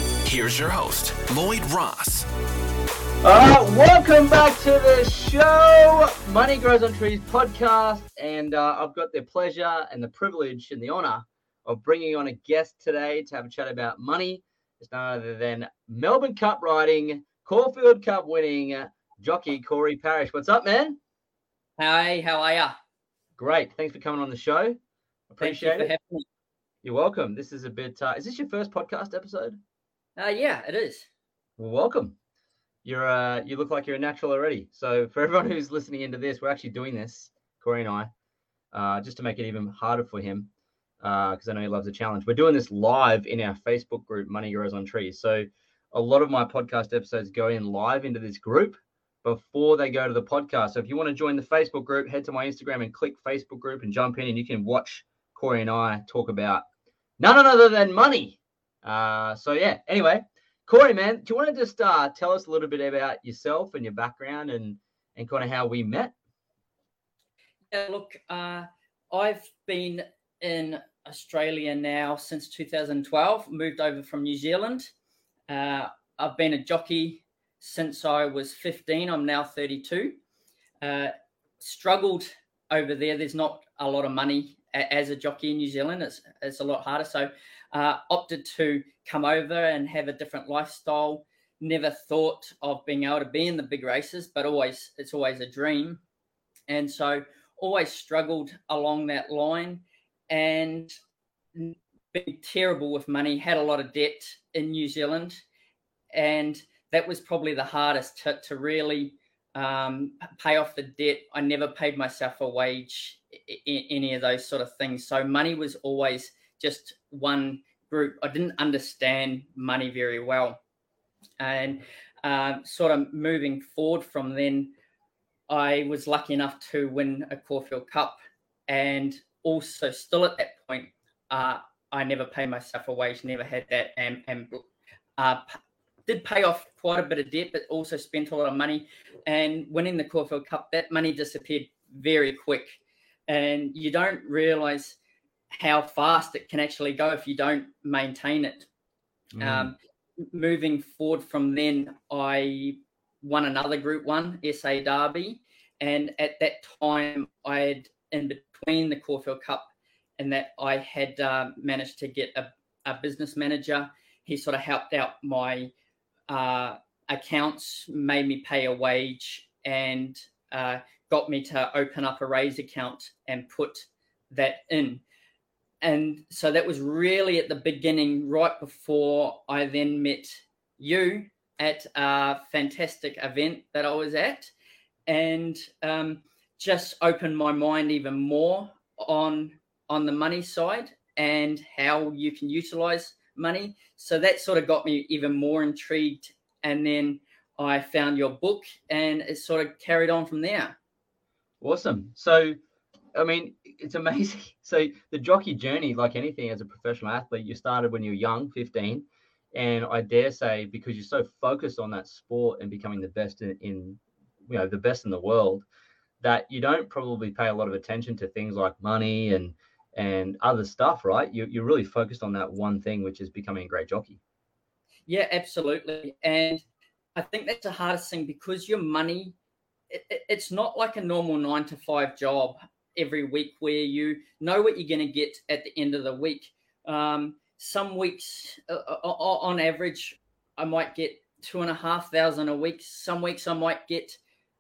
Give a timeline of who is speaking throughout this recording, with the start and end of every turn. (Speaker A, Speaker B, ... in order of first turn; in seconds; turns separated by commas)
Speaker A: 0.2-2.3, Speaker B: 3.2-21.0, Speaker C: 21.8-22.8, Speaker B: 23.4-24.8, Speaker B: 25.3-25.9, Speaker C: 25.4-26.2, Speaker B: 26.8-29.6, Speaker C: 30.2-31.1, Speaker B: 31.6-32.2, Speaker B: 32.9-38.1, Speaker B: 38.7-56.6, Speaker B: 57.2-66.2, Speaker C: 67.7-74.9, Speaker C: 75.5-80.2, Speaker C: 80.8-96.0, Speaker C: 96.7-100.9, Speaker C: 101.5-105.4, Speaker C: 106.1-120.6, Speaker C: 121.4-124.7, Speaker C: 125.5-134.6, Speaker C: 135.2-145.0, Speaker C: 145.5-148.7, Speaker B: 149.3-149.7, Speaker C: 149.4-149.8, Speaker C: 150.3-165.7, Speaker C: 166.3-175.0, Speaker C: 175.8-184.5, Speaker C: 185.1-200.8, Speaker B: 201.6-202.6, Speaker B: 203.1-215.7, Speaker B: 216.2-224.2, Speaker C: 225.1-226.6, Speaker C: 227.2-229.3, Speaker C: 229.9-244.2